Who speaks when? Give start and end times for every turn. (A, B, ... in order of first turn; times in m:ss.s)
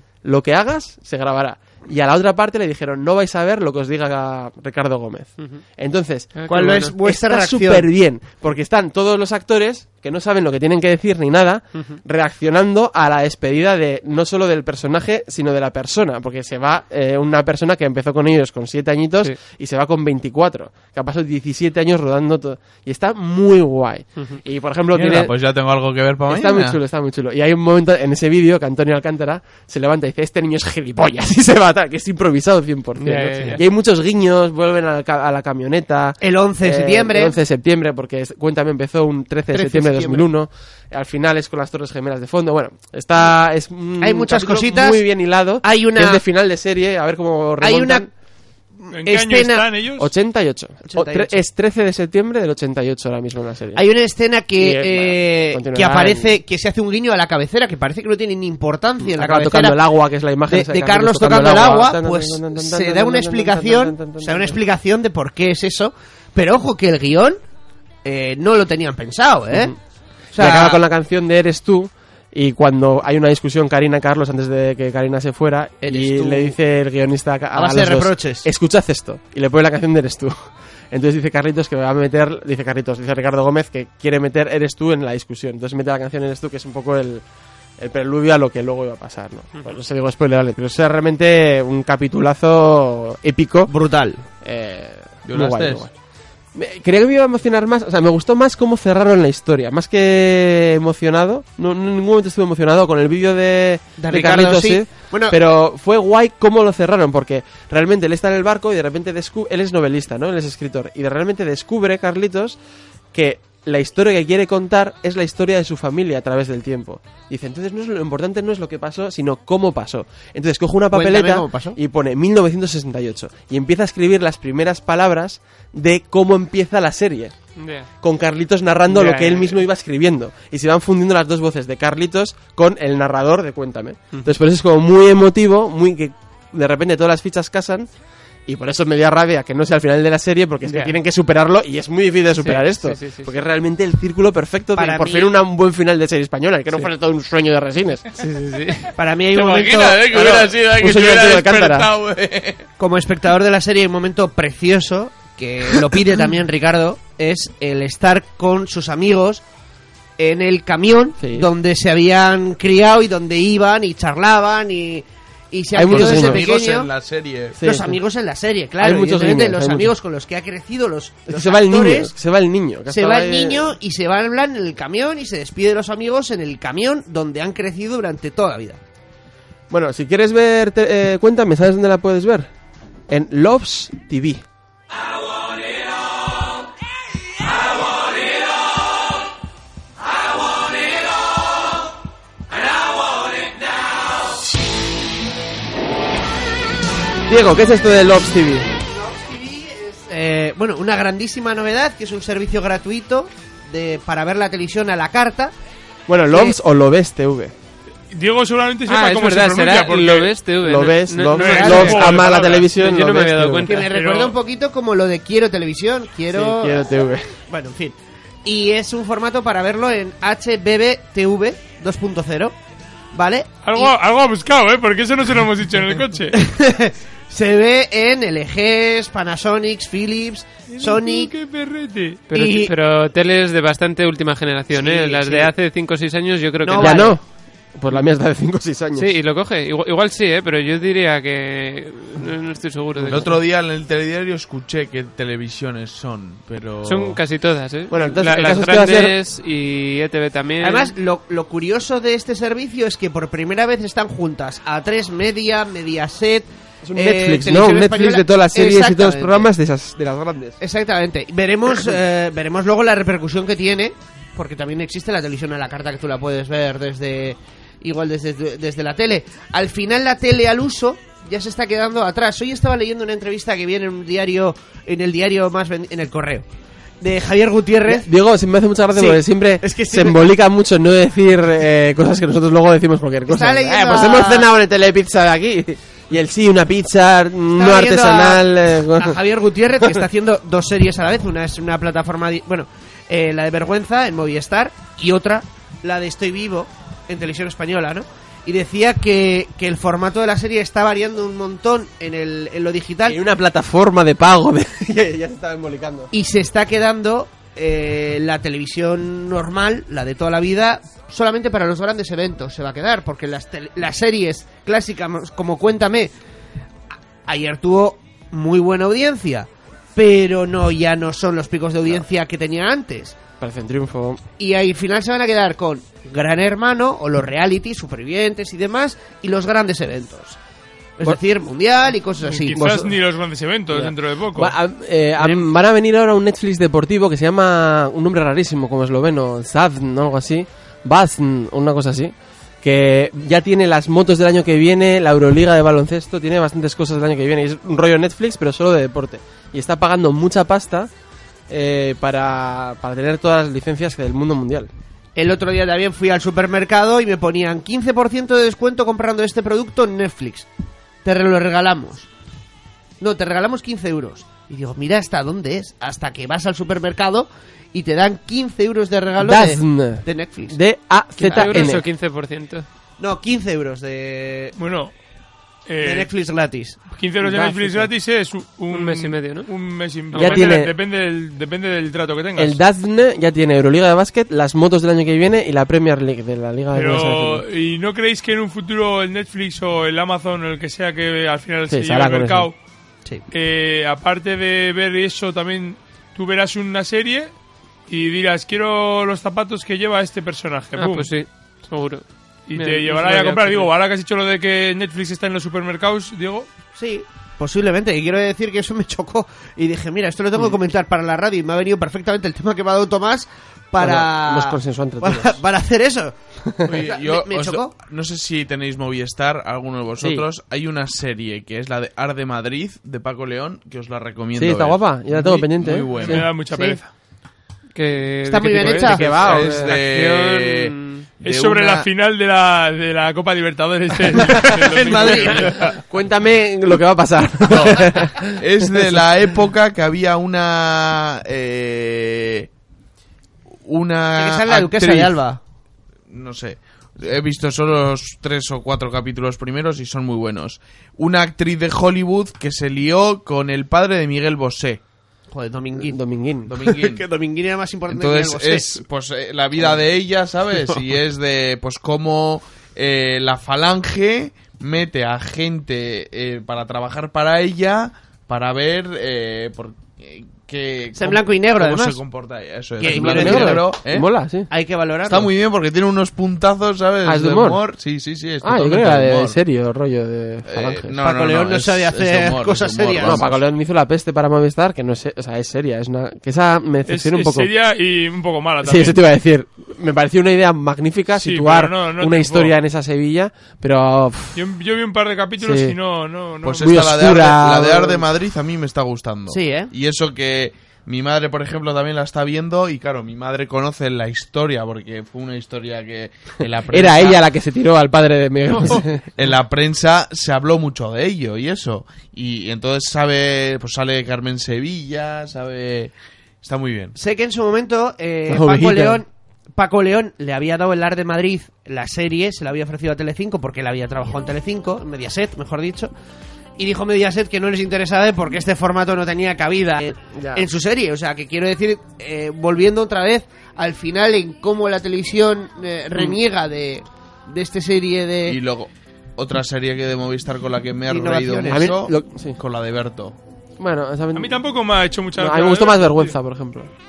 0:00.2-0:25.3 A
0:06.4-0:06.9 B
0:06.5-0:07.9 C
0:24.9-0:26.8 D
0:26.3-0:48.1 A
0:33.0-0:33.6 B
0:36.2-0:37.4 C
0:39.5-0:40.3 C
0:44.0-0:45.0 C
0:45.6-0:46.2 C
0:47.6-0:48.1 C
0:48.8-0:49.7 C
0:48.9-0:50.1 E
0:50.0-0:53.9 A
0:50.9-0:51.3 C
0:53.8-0:59.8 C
0:54.6-0:56.4 A
0:59.0-1:04.6 A
1:00.5-1:07.4 C
1:08.0-1:09.7 C
1:10.3-1:10.8 C
1:10.4-1:27.2 A
1:15.8-1:16.6 C
1:17.5-1:18.5 C
1:27.8-1:33.7 A
1:33.7-1:34.2 C
1:34.4-1:35.9 A
1:35.3-1:35.9 D
1:36.5-1:52.6 A
1:44.0-1:45.4 C
1:53.1-2:07.3 A
2:00.9-2:01.8 C
2:07.6-2:07.9 B
2:08.0-2:17.9 A
2:08.9-2:09.6 B
2:18.5-2:28.0 A
2:20.6-2:21.0 B
2:22.4-2:23.3 B
2:24.8-2:25.3 C
2:28.2-2:28.9 B
2:29.0-2:30.5 C
2:29.3-2:32.6 D
2:30.1-2:31.9 A
2:32.8-2:39.4 C
2:40.2-2:46.9 C
2:41.2-2:41.5 A
2:45.7-2:46.5 A
2:45.9-2:47.6 D
2:47.6-2:48.0 A
2:47.6-2:52.1 C
2:48.8-2:50.0 A
2:51.3-2:53.8 A
2:52.9-2:58.8 C
2:59.7-3:02.5 A
3:03.1-3:04.4 A
3:17.3-3:18.7 A
3:18.8-3:25.5 C
3:26.1-3:27.6 A
3:28.1-3:30.3 E
3:28.9-3:33.9 B
3:30.6-3:33.8 A
3:31.4-3:32.6 E
3:31.5-3:31.9 C
3:33.6-3:36.9 C
3:33.9-3:34.4 E
3:36.3-3:37.3 A
3:37.5-3:42.6 C
3:43.1-3:43.9 C
3:43.6-3:46.4 E
3:46.3-3:51.3 C
3:50.7-3:52.2 E
3:52.3-3:57.2 B
3:52.3-3:52.7 C
3:54.7-3:55.5 C
3:56.6-3:57.1 C
3:56.8-3:57.2 A
3:57.8-3:59.1 A
3:59.0-4:03.4 B
4:03.0-4:07.2 D
4:06.8-4:10.9 B
4:07.9-4:09.2 A
4:10.6-4:19.5 C
4:16.8-4:20.6 A
4:20.6-4:36.5 C
4:37.0-4:38.1 C
4:37.9-4:49.2 A
4:39.0-4:40.3 C
4:43.3-4:44.5 C
4:47.6-5:03.2 C
5:03.1-5:06.1 A
5:06.1-5:16.1 C
5:17.3-5:23.2 C
5:23.4-5:24.2 A
5:24.4-5:30.4 C
5:31.0-5:32.8 C
5:32.2-5:34.5 E
5:32.6-5:32.9 A
5:33.7-5:50.9 A
5:51.5-5:54.7 A
5:55.2-6:00.5 C
6:01.0-6:02.1 C
6:03.0-6:10.6 C
6:09.2-6:11.8 A
6:11.2-6:11.7 C
6:11.3-6:12.7 B
6:13.0-6:14.5 C
6:14.6-6:14.9 E
6:15.7-6:16.1 E
6:15.8-6:16.8 C
6:17.0-6:22.6 E
6:17.2-6:17.9 A
6:18.7-6:19.5 B
6:20.1-6:20.6 B
6:20.1-6:20.7 A
6:22.4-6:27.4 A
6:26.7-6:32.6 E
6:31.7-6:32.5 A
6:33.3-6:37.3 E
6:37.9-6:41.1 E
6:40.8-6:43.7 B
6:42.5-6:46.5 E
6:46.8-6:56.2 C
6:53.8-6:55.4 A
6:56.6-7:06.3 D
6:56.7-6:57.7 C
7:04.4-7:06.3 A
7:06.0-7:06.8 E
7:07.8-7:11.1 B
7:08.3-7:09.1 C
7:08.7-7:09.8 A
7:09.2-7:11.9 D
7:11.2-7:15.4 E
7:14.7-7:15.6 C
7:14.9-7:15.7 D
7:15.9-7:18.9 A
7:17.5-7:22.5 D
7:23.6-7:25.2 D
7:24.2-7:25.4 C
7:26.1-7:34.8 D
7:35.3-7:36.0 C
7:35.9-7:36.6 A
7:36.5-7:37.0 D
7:36.6-7:38.8 C
7:37.9-7:54.1 D
7:51.0-7:52.0 C
7:52.8-7:53.7 C
7:52.8-7:54.5 A
7:54.5-7:55.3 C
7:55.0-7:59.4 D
7:57.0-7:57.6 A
7:58.4-8:01.0 A
8:00.5-8:03.4 D
8:01.0-8:03.2 C
8:03.0-8:07.5 A
8:06.9-8:09.0 E
8:08.6-8:14.4 A
8:11.2-8:12.6 E
8:14.4-8:16.8 E
8:15.4-8:15.8 A
8:16.4-8:27.2 D
8:16.6-8:18.1 A
8:19.3-8:19.7 C
8:26.7-8:29.0 A
8:29.2-8:37.0 D
8:37.0-8:45.9 C
8:38.3-8:39.0 A
8:46.6-8:58.4 C
8:50.1-8:50.5 A
8:58.3-9:03.2 D
9:00.9-9:01.7 C
9:01.5-9:02.4 A
9:03.6-9:04.4 A
9:04.1-9:06.2 E
9:05.2-9:06.7 A